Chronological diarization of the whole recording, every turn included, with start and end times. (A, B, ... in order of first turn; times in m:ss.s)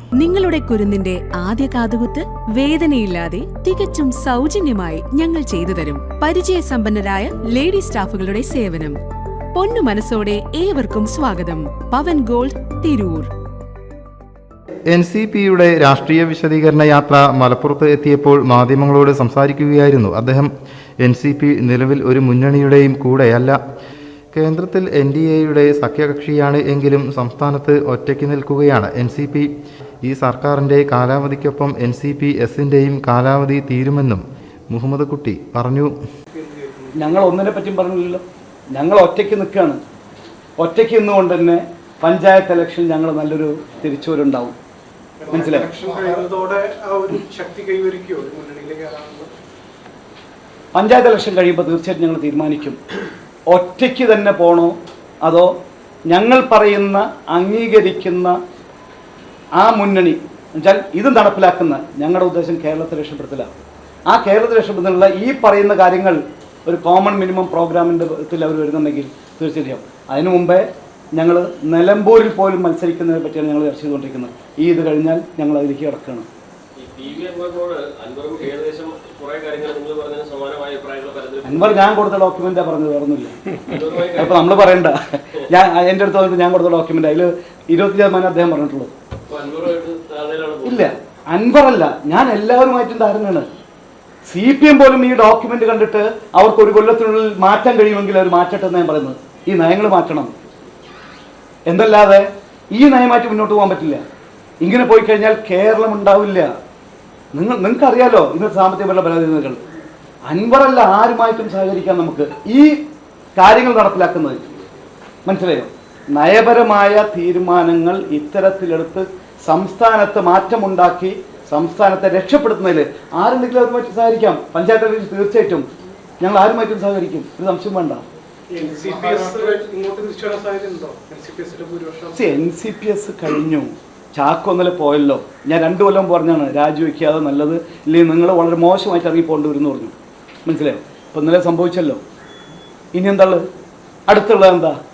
0:00.2-0:09.0 A
0:09.5-0:13.3 A
0:14.9-0:20.5 B
0:21.0-0:23.6 B
0:24.3-0:29.5 B
0:30.0-0:35.9 B
0:36.3-0:37.1 C
0:36.9-0:39.8 D
0:40.6-0:44.6 D
0:45.2-0:49.3 C
0:45.3-0:45.7 D
0:50.7-0:52.8 D
0:53.5-0:55.5 D
0:56.1-0:58.4 D
0:59.6-1:03.5 D
1:04.1-1:16.3 D
1:16.8-1:21.9 E
1:21.4-1:23.4 D
1:23.6-1:24.8 E
1:24.1-1:28.9 D
1:29.3-1:30.9 E
1:30.6-1:33.5 D
1:34.2-1:40.3 D
1:41.6-1:44.0 D
1:44.6-1:46.5 D
1:47.3-1:49.6 D
1:50.2-1:52.8 D
1:53.4-1:54.4 D
1:55.2-2:05.6 D
2:06.2-2:08.0 D
2:08.5-2:12.3 C
2:12.1-2:19.9 D
2:20.4-2:22.0 D
2:22.9-2:23.4 D
2:24.1-2:24.8 D